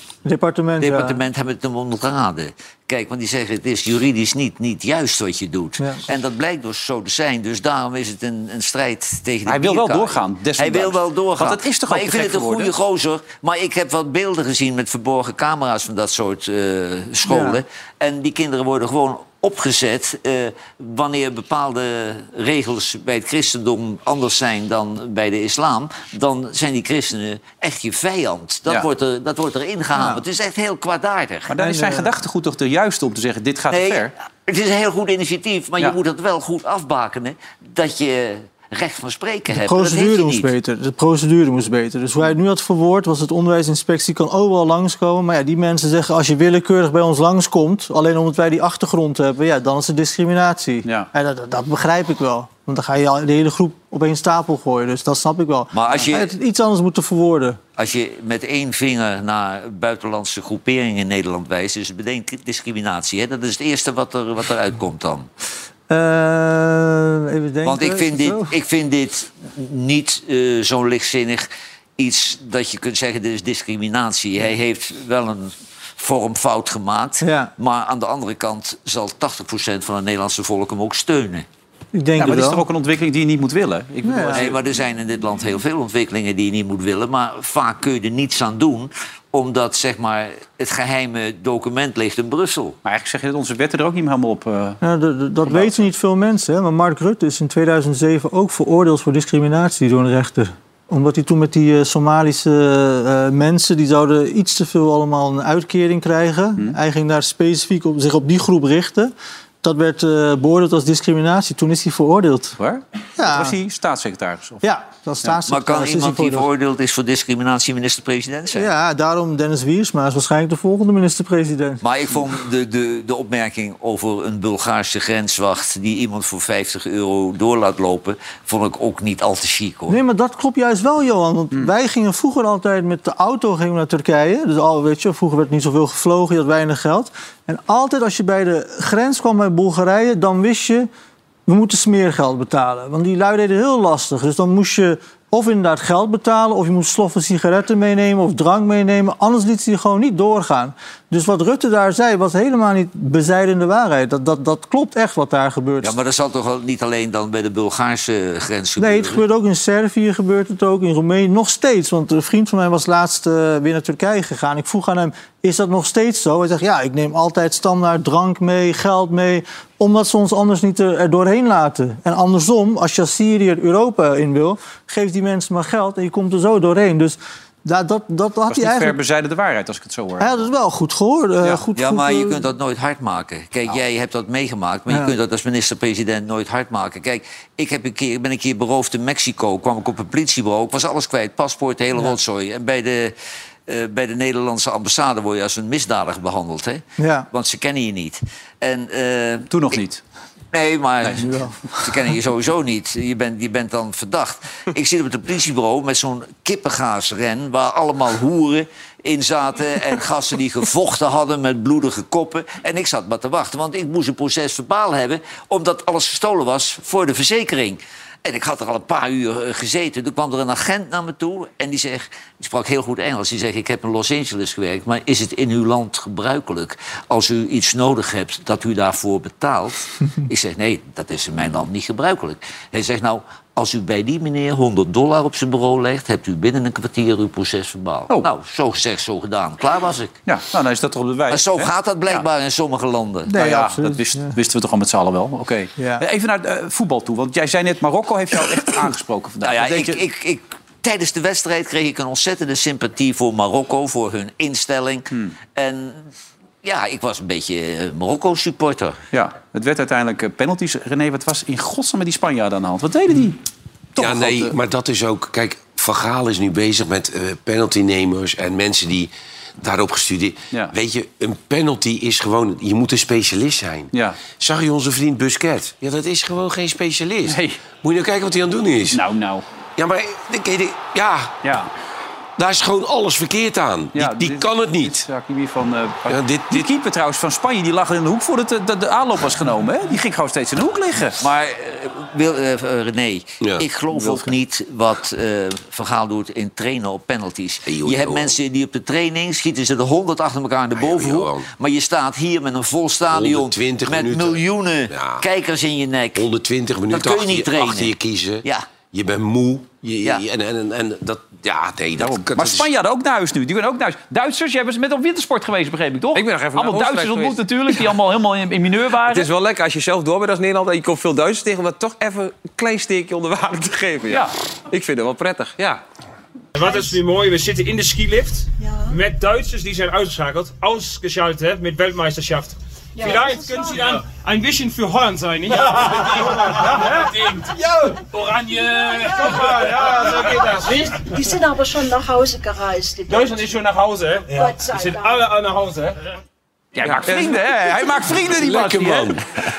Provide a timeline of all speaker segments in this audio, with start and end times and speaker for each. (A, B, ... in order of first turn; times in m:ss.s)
0:00.2-0:01.2 A
0:00.8-0:31.5 B
0:09.4-0:12.7 C
0:17.3-0:17.6 A
0:30.0-0:30.2 A
0:31.5-0:34.1 C
0:31.6-0:32.1 A
0:33.7-0:40.5 B
0:39.5-0:57.6 A
0:55.7-0:56.3 B
0:57.8-1:05.3 B
1:05.9-1:08.6 A
1:07.6-1:21.5 B
1:17.2-1:17.5 A
1:21.9-1:22.6 A
1:22.2-1:24.5 C
1:24.0-1:24.5 A
1:24.3-1:32.8 B
1:32.8-1:34.8 C
1:34.8-1:52.6 A
1:35.5-1:35.9 C
1:52.6-1:54.6 C
1:53.2-1:53.6 A
1:54.6-1:56.5 A
1:55.4-1:58.7 B
1:58.5-2:01.8 A
2:01.8-2:10.0 B
2:09.9-2:20.9 A
2:21.5-2:36.0 A
2:35.8-2:39.2 B
2:38.8-2:59.0 A
2:58.5-3:00.5 C
3:00.2-3:02.5 A
3:01.7-3:13.1 B
3:13.7-3:19.8 B
3:17.0-3:17.3 A
3:19.5-3:20.0 C
3:20.5-4:00.2 B
3:21.2-3:21.6 A
4:00.2-4:02.2 C
4:01.3-4:03.3 B
4:03.3-4:04.4 A
4:03.3-4:10.0 C
4:05.8-4:06.0 A
4:09.4-4:16.1 B
4:16.6-4:19.0 B
4:19.1-4:23.4 C
4:23.9-4:24.5 C
4:24.0-4:39.0 D
4:33.9-4:34.2 C
4:37.3-4:37.6 C
4:38.9-4:39.4 C
4:39.8-4:41.4 D
4:41.4-4:41.7 C
4:42.4-4:45.0 D
4:43.9-4:51.2 C
4:46.1-4:46.7 D
4:51.2-5:06.3 B
4:57.7-4:58.3 D
5:00.8-5:01.5 D
5:03.1-5:05.2 D
5:06.2-5:12.7 D
5:06.9-5:08.7 B
5:12.0-5:19.3 C
5:16.1-5:17.8 E
5:19.0-5:25.8 E
5:24.1-5:24.3 C
5:26.6-5:41.1 F
5:26.6-5:26.9 G
5:28.6-5:28.9 G
5:33.0-5:34.0 G
5:38.7-5:43.5 G
5:43.1-5:46.0 F
5:44.3-5:45.3 G
5:46.7-5:49.1 C
5:46.8-5:47.6 E
5:48.2-5:49.3 D